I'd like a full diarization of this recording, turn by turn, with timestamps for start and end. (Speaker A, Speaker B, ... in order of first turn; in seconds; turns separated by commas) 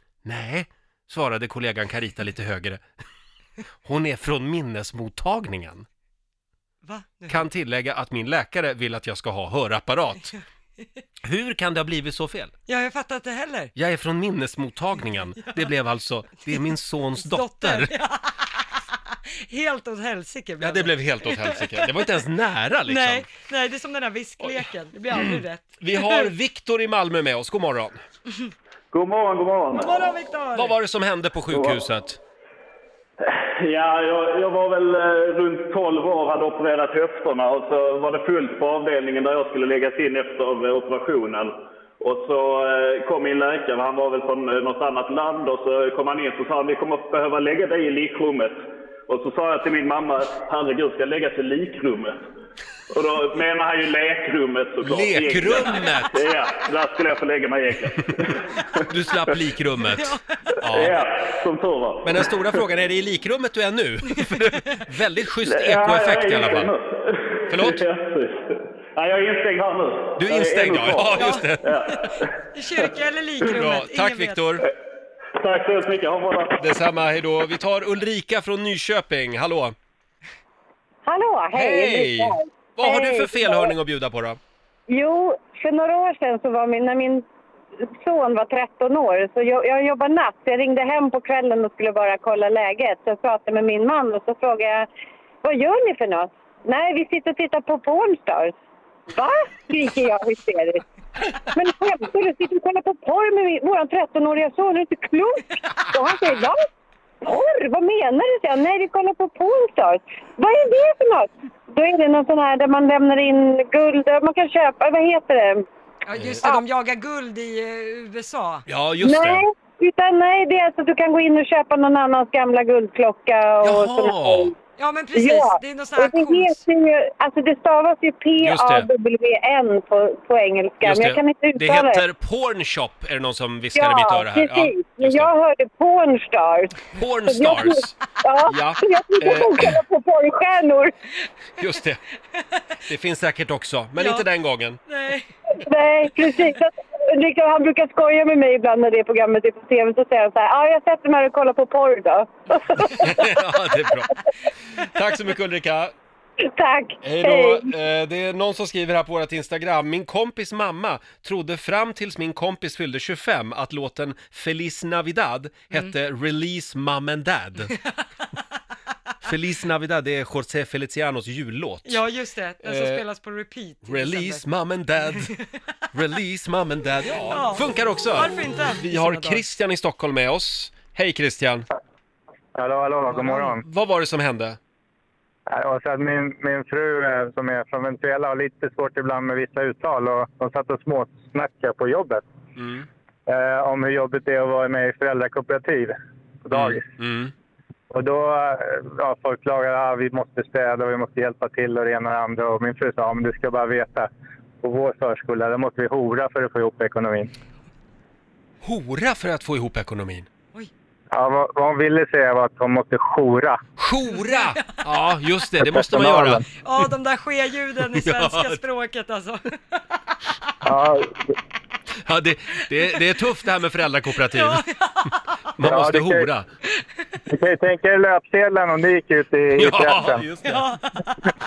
Speaker A: 0.2-2.8, Speaker A: 3.8-5.9, Speaker B: 6.8-7.4, Speaker A: 7.3-10.3, Speaker A: 11.2-12.5, Speaker B: 12.7-13.7, Speaker A: 13.8-17.9, Speaker B: 15.4-15.7, Speaker B: 17.2-22.1, Speaker A: 20.6-23.3, Speaker B: 22.8-26.3, Speaker A: 24.4-28.0, Speaker C: 28.9-29.9, Speaker B: 29.7-30.7, Speaker A: 30.5-32.2, Speaker C: 31.5-31.8, Speaker C: 33.2-52.2, Speaker C: 52.9-58.4, Speaker A: 54.8-56.2, Speaker A: 58.8-61.0, Speaker B: 59.9-60.4, Speaker C: 60.6-62.6, Speaker A: 62.0-66.7, Speaker B: 64.2-64.8, Speaker C: 65.4-72.3, Speaker A: 67.5-67.8, Speaker A: 70.2-72.0, Speaker B: 71.2-74.6, Speaker A: 73.4-74.6, Speaker C: 75.3-76.7, Speaker A: 76.6-79.8, Speaker D: 81.0-83.7, Speaker A: 81.5-84.4, Speaker D: 84.9-87.2, Speaker D: 88.0-94.8, Speaker D: 95.4-98.5, Speaker D: 99.1-100.8, Speaker D: 101.5-106.6, Speaker D: 107.2-115.6, Speaker B: 116.0-118.6, Speaker A: 116.1-116.4, Speaker A: 118.7-119.5, Speaker D: 119.0-124.5, Speaker A: 123.6-124.5, Speaker B: 124.8-126.6, Speaker D: 125.1-132.0, Speaker A: 128.4-128.9, Speaker A: 130.8-135.3, Speaker D: 133.7-140.9, Speaker A: 136.9-137.9, Speaker A: 138.5-139.8, Speaker A: 141.6-142.0, Speaker A: 142.8-144.8, Speaker B: 143.9-144.3, Speaker B: 144.8-145.3, Speaker D: 145.6-153.3, Speaker A: 153.0-154.1, Speaker A: 154.8-155.9, Speaker D: 156.5-157.7, Speaker A: 157.0-167.7, Speaker A: 169.2-172.0, Speaker B: 171.8-174.4, Speaker A: 172.6-173.0, Speaker A: 173.8-175.3, Speaker B: 175.2-175.5, Speaker A: 175.9-181.7, Speaker B: 177.1-179.5, Speaker E: 182.5-183.6, Speaker B: 183.1-183.6, Speaker A: 183.6-184.6, Speaker E: 185.5-192.2, Speaker A: 192.6-192.9, Speaker E: 193.3-196.9, Speaker A: 196.5-197.3, Speaker E: 197.9-204.1, Speaker E: 204.6-207.3, Speaker A: 208.6-210.3, Speaker E: 211.1-213.6, Speaker A: 213.8-216.4, Speaker B: 214.2-214.8, Speaker E: 215.6-216.4, Speaker B: 216.6-220.0, Speaker A: 217.8-218.6, Speaker E: 220.6-221.3, Speaker A: 221.9-224.7, Speaker B: 224.3-225.3, Speaker A: 225.6-226.5, Speaker E: 225.6-226.3, Speaker E: 227.3-230.2, Speaker A: 229.6-230.7, Speaker B: 230.4-231.2